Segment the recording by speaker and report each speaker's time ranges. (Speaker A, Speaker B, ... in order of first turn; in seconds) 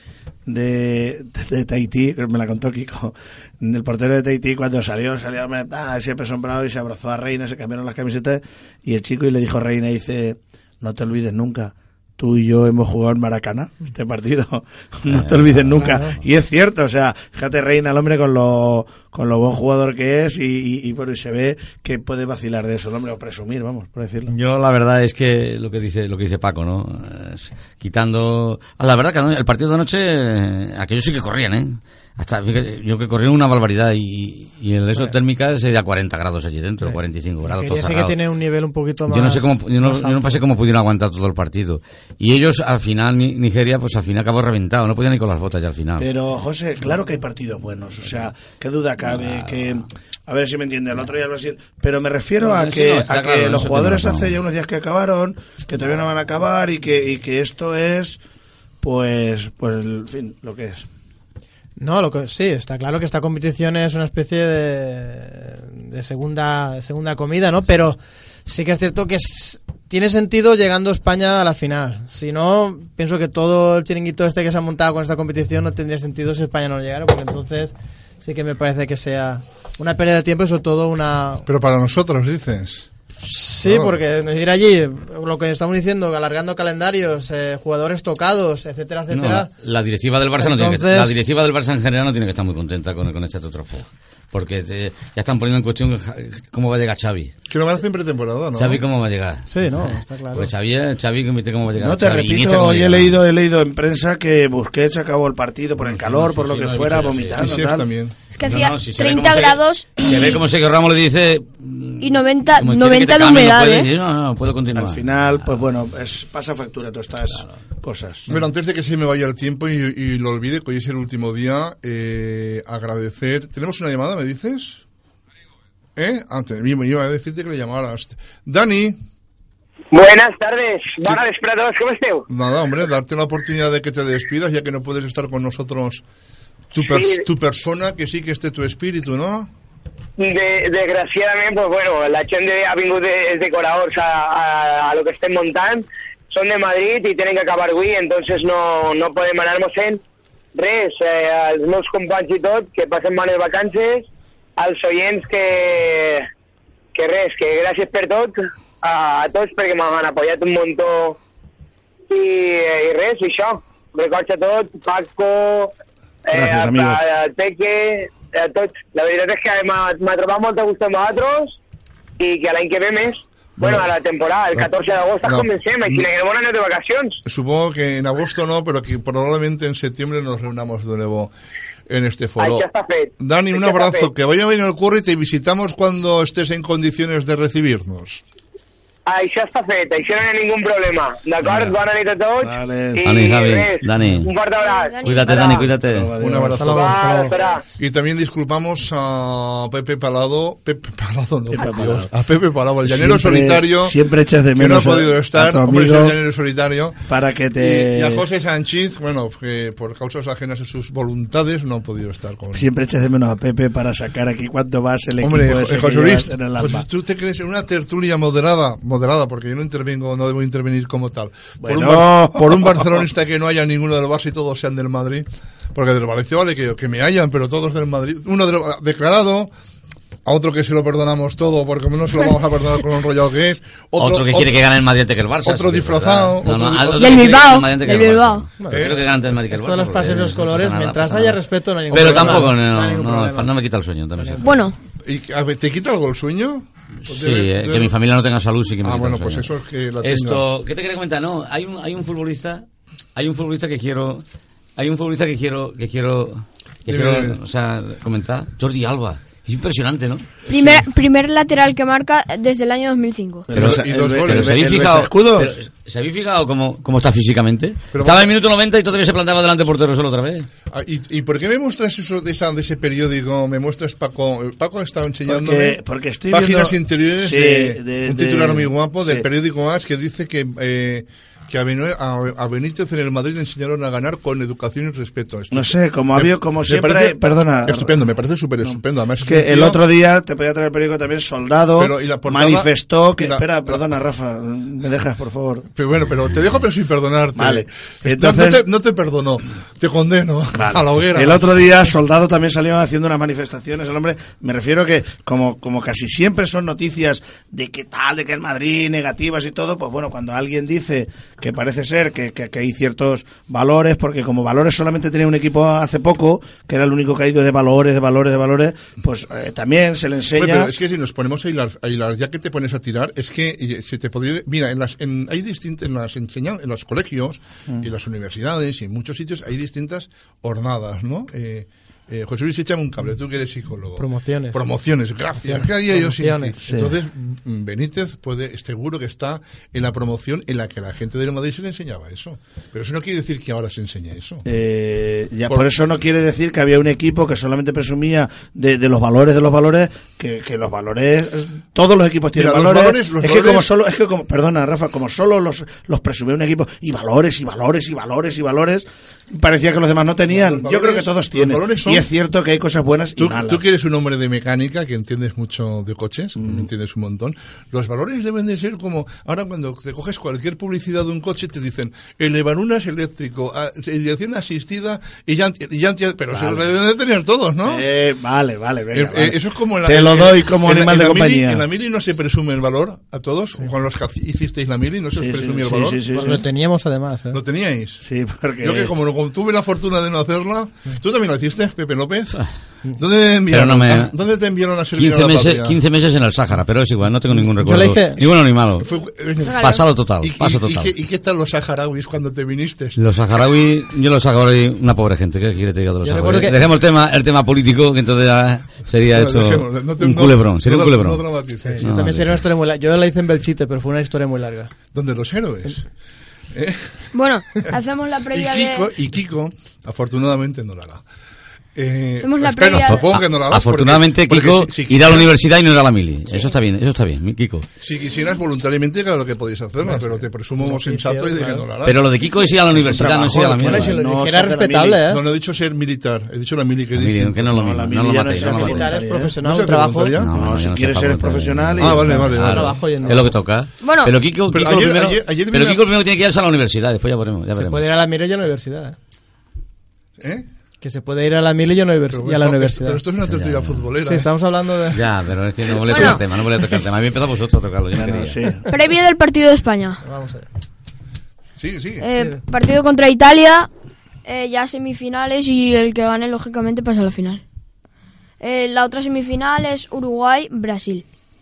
Speaker A: 0.5-24.3, 46.0-58.2, 58.8-60.9, 101.8-107.9, 114.7-118.3, 166.3-167.0, 191.4-191.8, 192.4-193.0, 195.7-196.8, 201.5-202.1, 202.8-206.1, 207.1-208.2, 212.5-216.8, 221.6-223.0, 263.5-265.6, 275.3-279.2, 285.5-287.9, 288.6-295.7, 297.4-298.6, 300.5-320.7, 336.6-336.9, 344.4-363.6, 376.3-376.7, 377.6-381.6, 385.1-386.4, 388.0-388.9, 432.7-435.0, 437.4-439.4, 440.3-442.3, 457.9-458.7
Speaker B: 15.1-16.0, 24.3-38.1, 39.1-46.1, 49.0-49.9, 52.4-54.4, 89.1-97.3, 98.5-103.2, 105.8-107.6, 108.4-115.6, 117.3-117.6, 193.0-194.3, 195.0-196.1, 234.0-244.6, 247.1-249.5, 250.0-254.2, 254.8-260.4, 263.5-270.5, 393.5-394.1, 394.9-398.9, 399.6-400.9, 403.0-411.2, 411.8-412.4, 422.8-427.7, 431.8-433.9, 436.9-438.9, 440.1-447.9, 453.2-453.9, 454.9-458.4
Speaker C: 15.8-16.2, 36.8-40.4, 61.8-81.5, 83.2-89.5, 90.4-91.2, 99.5-100.5, 196.5-197.3, 238.6-243.5, 244.2-244.5, 334.0-334.7, 335.4-336.6, 386.1-387.4, 397.4-398.2, 406.0-406.6, 411.6-414.7, 429.8-431.6, 433.6-435.2, 438.4-440.2, 442.3-443.4, 447.5-448.9, 450.8-453.0, 454.0-455.0, 460.0-460.5
Speaker D: 81.5-82.9, 83.6-84.0, 97.5-98.8, 107.4-108.2, 118.3-124.8, 126.0-129.0, 132.3-136.0, 136.7-139.5, 173.6-173.8, 175.2-176.1, 177.2-181.3, 181.9-182.7, 183.2-188.2, 196.2-197.2, 197.8-203.9, 204.5-212.7, 215.2-229.5, 230.2-234.6, 235.4-237.4, 238.7-239.0, 241.9-242.5, 245.0-247.9, 248.8-250.4, 256.9-257.4, 263.5-264.6, 267.9-268.3, 270.7-289.8, 291.7-293.8, 295.7-301.5, 320.4-344.4, 345.5-345.7, 352.3-353.7, 360.3-362.1, 363.2-377.9, 378.9-386.0, 387.3-388.0, 388.6-392.4, 393.0-395.8, 398.8-403.0, 409.1-411.9, 414.9-415.8, 416.5-417.0, 418.3-421.0, 421.7-425.3, 427.8-432.1, 435.1-437.5, 439.4-440.3, 441.8-442.8, 444.5-445.8, 450.2-450.5, 452.1-454.3, 461.6-462.1
Speaker E: 108.3-110.4, 112.0-113.9, 194.6-195.7, 237.0-238.5, 244.4-244.8, 260.5-263.5, 399.4-399.8, 417.1-418.9, 422.2-423.1, 443.8-444.1, 455.8-456.2, 458.7-460.0, 462.0-463.7, 464.2-467.4, 468.4-471.0
Speaker F: 129.9-132.3, 136.8-137.2, 140.2-150.0, 150.5-156.3, 156.9-161.2, 162.1-165.7, 166.2-171.6, 172.2-177.2, 182.4-184.1, 189.1-195.7, 196.7-197.6